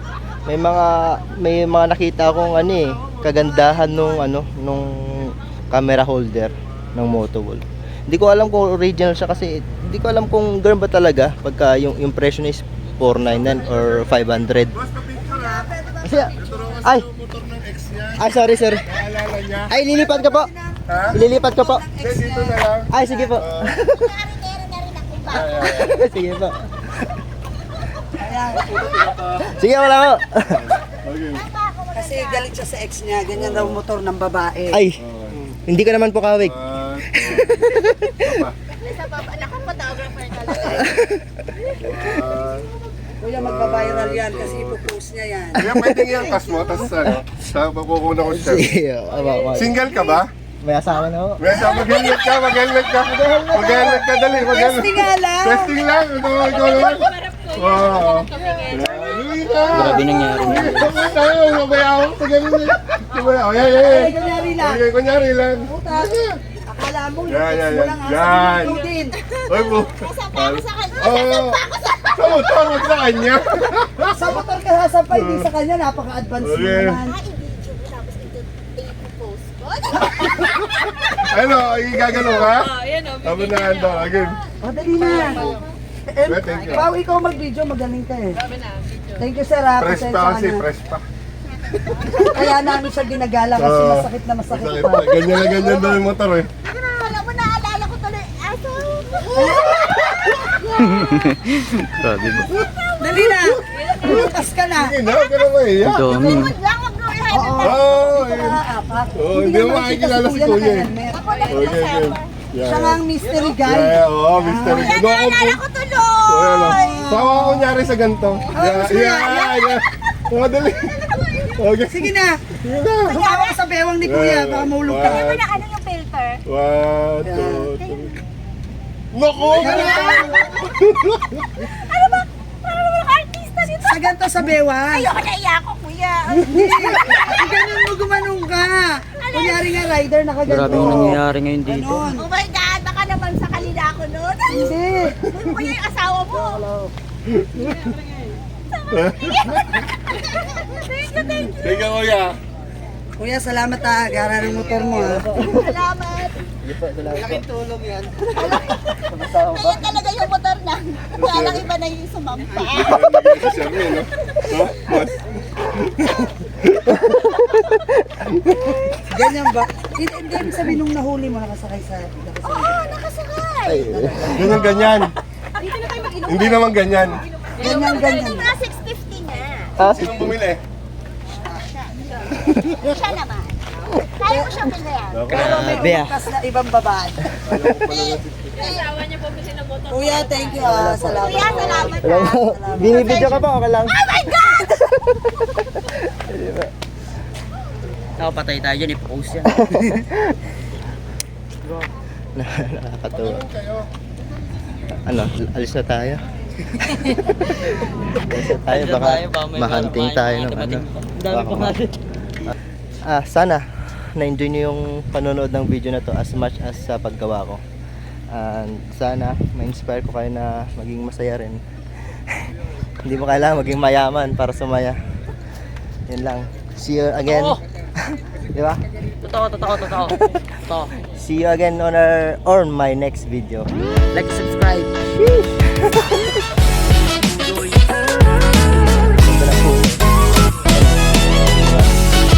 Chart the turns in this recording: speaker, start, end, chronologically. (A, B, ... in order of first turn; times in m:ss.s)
0:00.5-0:14.8 A
0:14.8-0:15.7 B
0:15.2-0:16.8 C
0:16.0-0:17.1 A
0:16.4-0:19.7 B
0:18.2-0:18.9 A
0:19.7-0:20.5 A
0:19.8-0:22.6 C
0:20.9-0:21.2 B
0:21.1-0:21.8 A
0:22.0-0:23.7 B
0:22.9-0:24.1 A
0:23.0-0:26.0 D
0:25.3-0:25.9 B
0:25.6-0:27.2 A
0:28.2-0:28.9 C
0:28.5-0:29.5 B
0:29.4-0:30.8 A
0:30.6-0:31.4 B
0:31.1-0:32.5 D
0:32.0-0:34.8 C
0:33.4-0:33.8 B
0:34.7-0:35.0 A
0:35.0-0:35.6 B
0:35.7-0:38.5 A
0:36.4-0:38.6 B
0:38.8-0:41.0 D
0:40.6-0:41.4 A
0:41.7-0:42.6 D
0:41.8-0:42.7 B
0:43.2-0:46.5 C
0:43.3-0:44.9 B
0:45.6-0:46.2 A
0:45.6-0:48.7 B
0:46.9-0:47.2 A
0:48.3-0:49.8 A
0:49.2-0:50.2 D
0:49.5-0:50.3 B
0:50.6-0:51.5 A
0:51.4-1:06.4 B
0:51.6-0:52.1 C
0:53.1-0:53.5 A
0:53.1-0:55.8 C
0:59.7-1:01.1 E
1:00.7-1:01.3 D
1:03.8-1:04.8 C
1:05.7-1:06.2 C
1:06.7-1:09.2 C
1:07.3-1:08.9 B
1:08.6-1:12.8 D
1:09.5-1:11.6 B
1:12.1-1:14.4 B
1:14.1-1:17.2 C
1:15.1-1:15.5 B
1:16.4-1:17.0 B
1:16.9-1:21.3 D
1:21.1-1:24.4 B
1:24.6-1:25.5 C
1:24.7-1:25.7 D
1:26.1-1:28.4 C
1:26.2-1:26.9 B
1:29.2-1:30.6 C
1:29.8-1:31.0 B
1:31.4-1:32.8 D
1:32.3-1:35.1 C
1:33.6-1:36.5 B
1:35.2-1:36.0 D
1:36.6-1:41.1 D
1:39.4-1:40.8 B
1:40.8-1:42.5 E
1:42.4-1:42.6 B
1:42.4-1:44.3 D
1:43.0-1:45.0 C
1:44.0-1:46.4 B
1:45.8-1:46.6 E
1:46.1-1:47.8 D
1:47.3-1:51.5 C
1:47.6-1:48.6 B
1:49.2-1:50.9 B
1:51.0-1:52.4 D
1:51.5-1:53.0 B
1:52.6-1:55.0 C
1:53.3-1:53.6 D
1:53.6-1:55.6 B
1:54.6-1:57.4 D
1:56.3-2:03.1 B
1:56.6-1:57.6 C
1:58.1-2:01.6 D
1:58.5-1:59.4 C
2:01.9-2:02.4 C
2:03.1-2:05.3 C
2:03.1-2:03.6 D
2:04.0-2:05.6 B
2:05.0-2:06.4 D
2:06.5-2:08.2 B
2:07.2-2:07.8 C
2:07.8-2:08.2 D
2:09.1-2:11.7 B
2:09.4-2:10.9 D
2:09.6-2:10.6 C
2:11.6-2:14.2 D
2:13.8-2:15.2 C
2:14.9-2:17.8 D
2:16.3-2:22.3 C
2:19.2-2:20.0 D
2:20.5-2:22.1 E
2:20.6-2:21.0 B
2:22.1-2:26.7 D
2:24.5-2:25.2 C
2:26.3-2:26.9 C
2:27.3-2:27.9 B
2:28.7-2:31.6 D
2:29.0-2:29.5 B
2:31.4-2:32.4 B
2:33.2-2:35.3 C
2:34.5-2:36.5 D
2:35.0-2:35.7 A
2:36.6-2:38.0 A
2:38.3-2:43.9 D
2:39.1-2:39.8 A
2:41.2-2:41.7 B
2:42.6-2:47.1 B
2:46.9-2:48.8 A
2:48.6-2:49.9 D
2:49.1-2:53.0 C
2:52.4-2:54.7 D
2:53.7-2:54.6 A
2:53.8-2:54.8 C
2:54.3-2:55.1 B
2:55.6-3:00.0 D
2:56.3-2:57.2 B
2:57.6-2:58.5 C
2:59.8-3:00.4 A
2:59.8-3:00.6 B
3:01.4-3:05.5 D
3:02.4-3:03.0 A
3:04.3-3:04.6 C
3:05.1-3:06.0 B
3:05.3-3:06.2 A
3:05.3-3:07.2 C
3:07.4-3:08.7 B
3:07.7-3:09.3 D
3:09.9-3:13.3 C
3:10.6-3:11.4 A
3:10.7-3:14.7 D
3:12.0-3:14.0 A
3:14.6-3:16.7 A
3:18.2-3:20.0 E
3:19.5-3:20.4 A
3:21.6-3:21.9 E
3:22.4-3:23.4 A
3:23.2-3:23.9 B
3:25.0-3:26.3 A
3:26.8-3:31.8 A
3:26.9-3:27.3 E
3:28.3-3:32.0 E
3:33.1-3:37.6 A
3:38.3-3:42.5 A
3:43.0-3:45.0 A
3:46.1-3:48.8 A
3:47.3-3:47.6 E
3:49.2-3:50.9 E
3:50.0-3:50.4 A
3:51.0-3:53.7 A
3:54.1-3:55.0 E
3:55.1-3:56.4 A
3:57.2-3:57.9 E
3:59.1-4:00.0 A
4:00.7-4:02.0 A